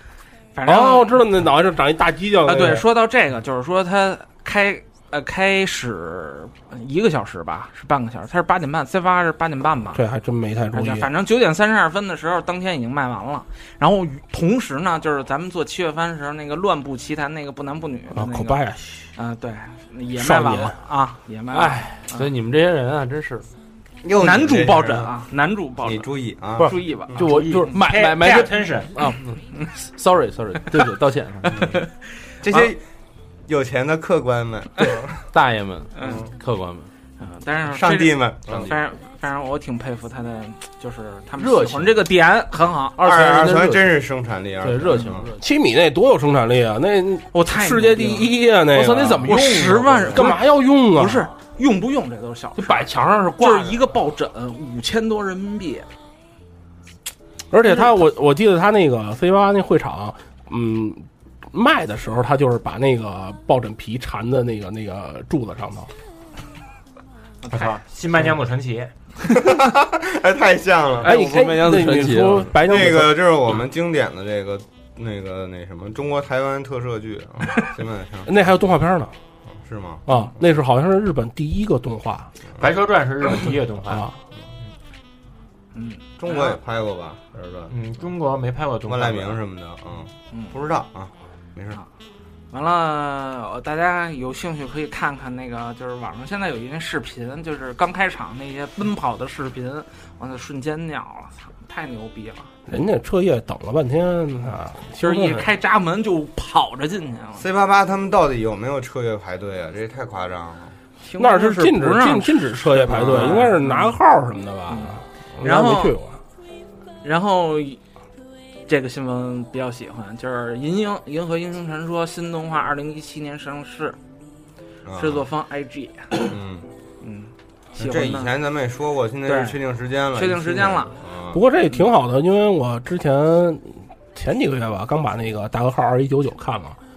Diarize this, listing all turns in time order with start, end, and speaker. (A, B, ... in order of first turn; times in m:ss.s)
0:00.6-0:01.2 A
0:00.7-0:02.8 B
0:02.4-0:10.0 A
0:09.9-0:11.1 B
0:10.7-0:18.6 A
0:18.1-0:19.1 B
0:19.2-0:22.3 A
0:20.2-0:20.8 B
0:21.5-0:23.5 C
0:24.0-0:25.1 D
0:24.2-0:27.2 A
0:25.8-0:27.3 D
0:26.6-0:31.6 C
0:27.2-0:28.9 E
0:31.4-0:32.7 A
0:32.4-0:32.8 D
0:33.5-0:35.3 D
0:35.3-0:36.9 C
0:36.0-0:36.2 A
0:36.0-0:36.3 D
0:37.2-0:43.0 A
0:37.7-0:38.7 D
0:41.4-0:42.0 C
0:43.0-0:44.0 C
0:43.0-0:45.3 D
0:44.6-0:45.4 C
0:45.4-0:49.4 B
0:47.3-0:48.4 A
0:48.7-0:50.4 C
0:49.3-0:52.8 A
0:50.1-0:51.2 B
0:52.6-0:53.8 C
0:53.4-0:55.9 A
0:57.5-1:05.9 B
0:57.6-0:58.0 A
1:07.4-1:07.8 A
1:07.5-1:08.9 E
1:09.2-1:11.1 D
1:11.0-1:12.9 C
1:11.0-1:13.2 B
1:12.6-1:18.3 D
1:18.3-1:19.1 B
1:19.6-1:20.0 D
1:20.1-1:22.3 B
1:22.6-1:24.1 E
1:25.7-1:26.6 A
1:26.2-1:27.7 D
1:27.7-1:29.4 E
1:28.8-1:31.8 D
1:32.5-1:42.5 A
1:42.7-1:45.4 B
1:45.0-1:47.4 A
1:47.4-1:50.8 D
1:51.0-1:54.0 A
1:51.2-1:56.2 B
1:52.9-1:53.5 D
1:54.7-1:56.0 A
1:57.0-1:57.8 A
1:58.7-2:04.0 A
2:04.9-2:05.3 D
2:05.0-2:06.3 A
2:06.3-2:06.7 D
2:07.0-2:08.3 A
2:07.8-2:11.4 D
2:09.3-2:09.6 A
2:10.2-2:11.0 A
2:11.3-2:16.8 B